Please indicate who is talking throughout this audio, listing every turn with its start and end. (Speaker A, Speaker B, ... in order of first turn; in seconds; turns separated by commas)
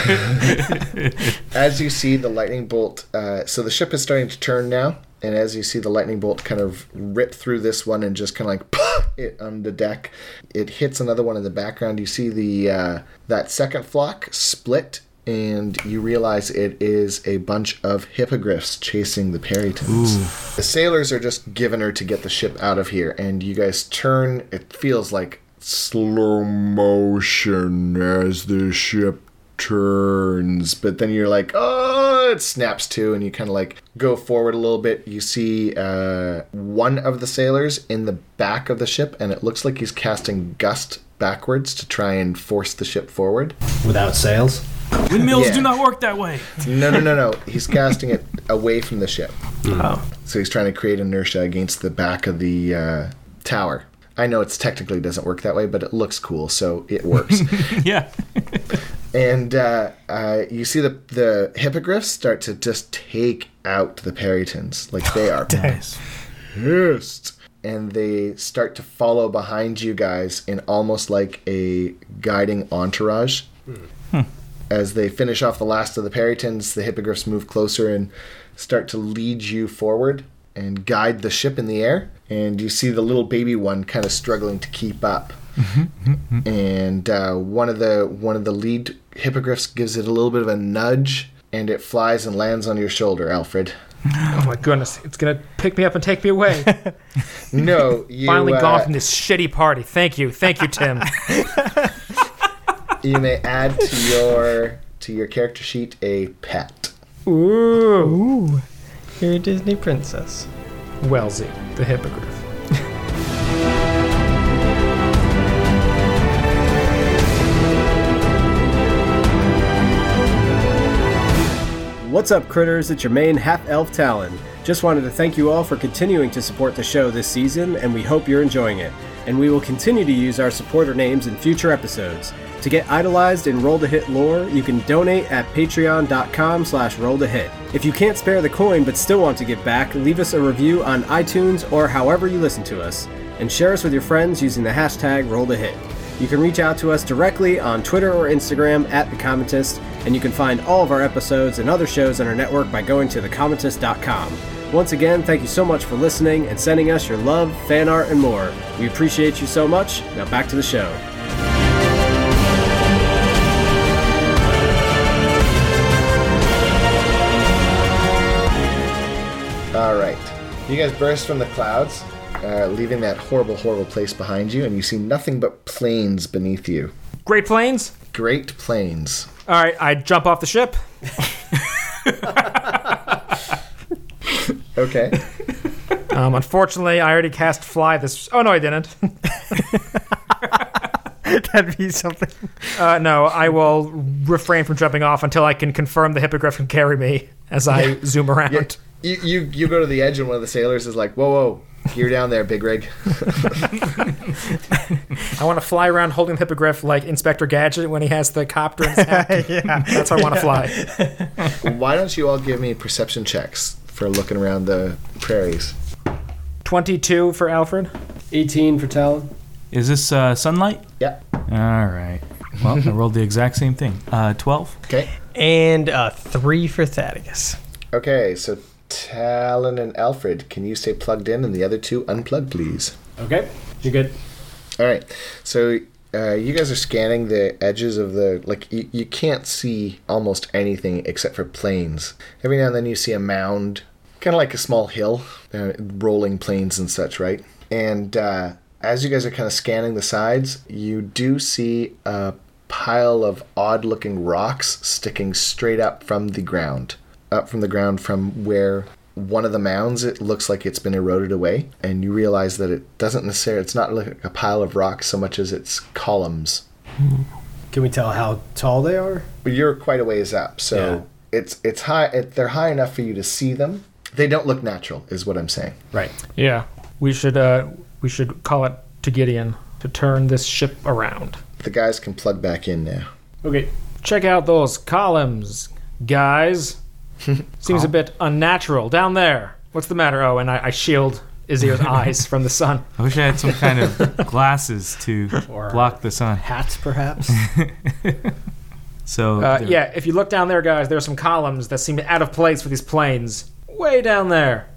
Speaker A: 0.4-1.2, Speaker B: 1.4-43.6, Speaker A: 19.9-20.4, Speaker C: 43.8-44.6, Speaker A: 45.0-46.9, Speaker B: 45.3-45.8, Speaker B: 46.6-49.3, Speaker B: 50.2-57.8, Speaker A: 57.4-58.8, Speaker B: 59.1-65.8, Speaker A: 65.5-66.0, Speaker B: 66.5-73.5, Speaker B: 74.7-85.4, Speaker A: 85.7-86.4, Speaker B: 86.4-93.7, Speaker D: 94.3-96.7, Speaker B: 97.5-98.9, Speaker D: 98.2-101.2, Speaker B: 103.0-106.9, Speaker D: 107.3-108.2, Speaker E: 108.0-108.6, Speaker E: 109.2-110.5, Speaker D: 111.0-112.4, Speaker C: 122.0-161.0, Speaker B: 169.7-176.9, Speaker D: 177.3-177.9, Speaker B: 178.1-179.3, Speaker D: 179.5-180.8, Speaker B: 184.8-185.2, Speaker D: 186.1-189.7, Speaker E: 191.2-192.7, Speaker D: 192.8-198.8, Speaker B: 198.5-203.9, Speaker D: 205.2-210.8, Speaker E: 208.9-211.3, Speaker B: 211.6-215.8, Speaker D: 216.6-217.9, Speaker C: 218.3-219.3, Speaker A: 219.7-220.9, Speaker A: 221.5-224.8, Speaker E: 225.3-227.6, Speaker B: 227.9-233.0, Speaker C: 233.2-234.2, Speaker B: 234.8-266.6, Speaker C: 267.7-269.3, Speaker B: 269.4-275.8, Speaker C: 270.7-271.0, Speaker D: 276.4-281.4, Speaker B: 281.6-283.1, Speaker C: 283.4-283.7, Speaker D: 284.0-286.8, Speaker D: 287.6-292.9, Speaker A: 293.0-296.4, Speaker C: 295.5-297.4, Speaker A: 297.3-298.2, Speaker A: 299.1-299.8, Speaker D: 299.4-304.7